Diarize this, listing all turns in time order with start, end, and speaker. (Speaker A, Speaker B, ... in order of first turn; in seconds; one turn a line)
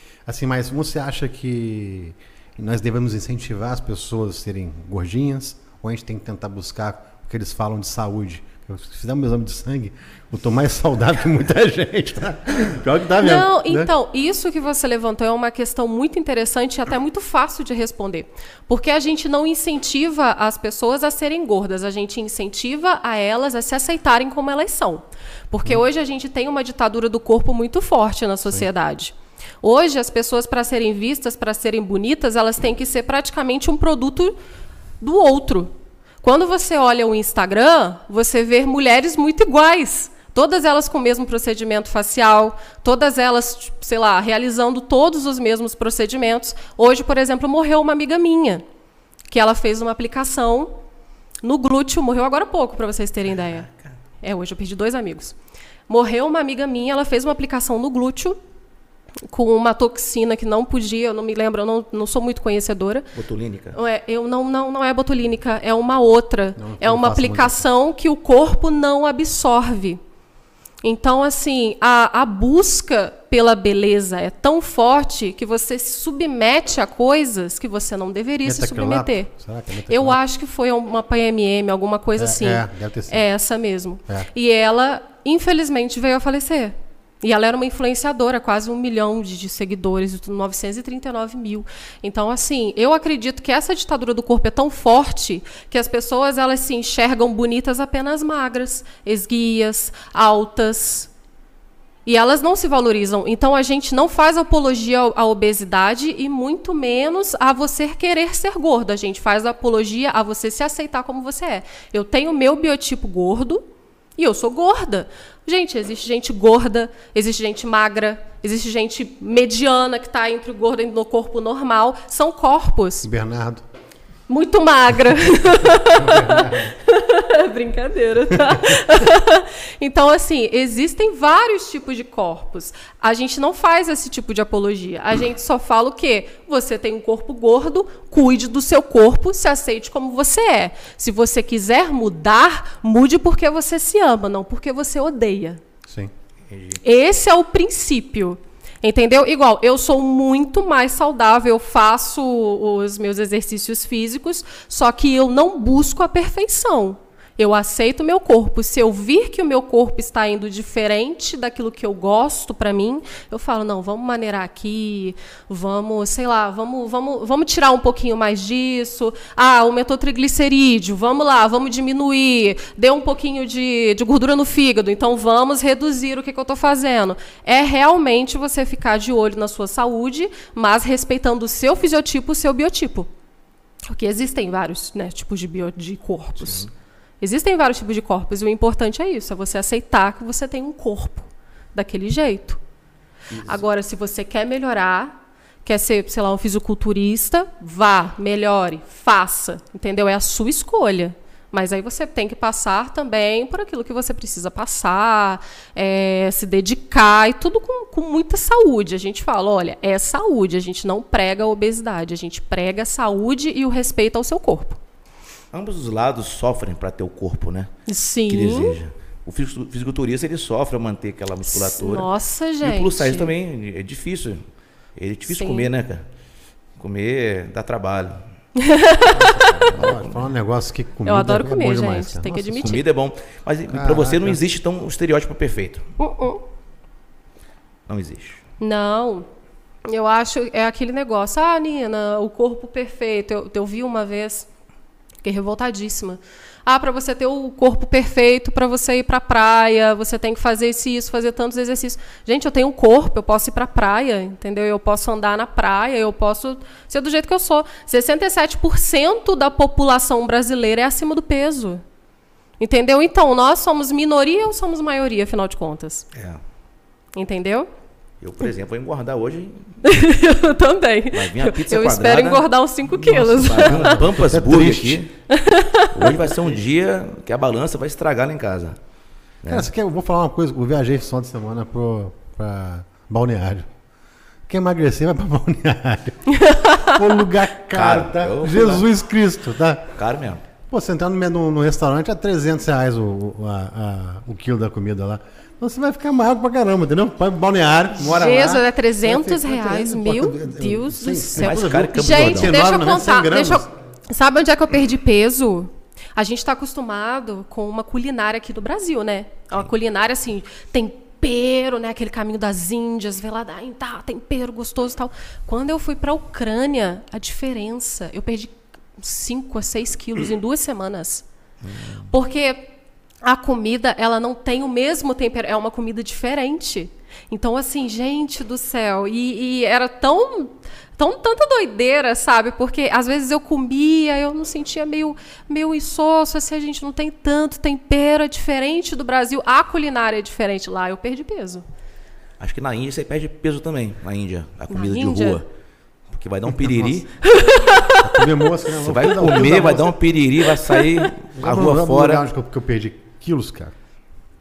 Speaker A: 0.2-13.9
Speaker B: 13.2-34.4
Speaker B: 35.0-48.6
Speaker B: 49.3-50.8
Speaker B: 51.4-53.7
Speaker B: 54.2-55.4
Speaker B: 55.9-58.4
Speaker B: 59.3-63.1
Speaker C: 63.1-63.8
Speaker B: 63.7-70.0
Speaker A: 66.6-67.6
Speaker B: 70.8-79.3
Speaker A: 78.4-80.2
Speaker B: 79.9-101.1
Speaker A: 82.2-83.3
Speaker B: 102.0-113.6
Speaker B: 114.2-123.1
Speaker A: 123.0-123.6
Speaker B: 124.3-145.6
Speaker A: 125.8-126.7
Speaker A: 145.8-146.1
Speaker C: 146.5-146.8
Speaker B: 146.8-183.1
Speaker B: 183.9-186.7
Speaker B: 187.2-192.6
Speaker B: 193.4-214.8
Speaker C: 215.5-217.7
Speaker B: 217.9-218.8
Speaker C: 218.3-222.1
Speaker B: 221.4-223.3
Speaker C: 222.6-224.4
Speaker C: 224.9-226.1
Speaker B: 225.3-225.7
Speaker C: 226.8-228.2
Speaker B: 228.6-229.5
Speaker A: 229.1-232.8
Speaker C: 229.7-230.2
Speaker B: 231.0-232.8
Speaker C: 232.6-235.8
Speaker A: 233.7-234.4
Speaker B: 236.0-236.4
Speaker C: 237.9-238.4
Speaker B: 238.6-239.3
Speaker B: 239.8-244.5
Speaker B: 245.2-261.8
Speaker B: 262.6-266.1
Speaker C: 266.1-266.4
Speaker B: 267.1-267.7
Speaker C: 268.2-269.9
Speaker B: 269.8-274.0
Speaker C: 271.1-272.5
Speaker A: 273.0-275.1
Speaker C: 273.1-275.1
Speaker B: 275.3-276.3
Speaker C: 275.9-278.8
Speaker C: 279.4-279.7
Speaker A: 279.5-283.7
Speaker A: 284.5-289.9
Speaker B: 286.3-287.0
Speaker C: 287.7-288.8
Speaker C: 289.9-290.4
Speaker A: 290.7-303.7
Speaker B: 298.0-321.2
Speaker C: 301.4-302.6
Speaker C: 321.6-322.1
Speaker B: 322.1-322.7
Speaker B: 323.2-341.6
Speaker C: 342.4-345.4
Speaker B: 344.7-345.4
Speaker C: 346.1-347.1
Speaker A: 346.5-347.0
Speaker B: 347.2-348.2
Speaker A: 348.0-350.0
Speaker C: 348.8-352.2
Speaker B: 350.6-351.1
Speaker A: 351.3-353.7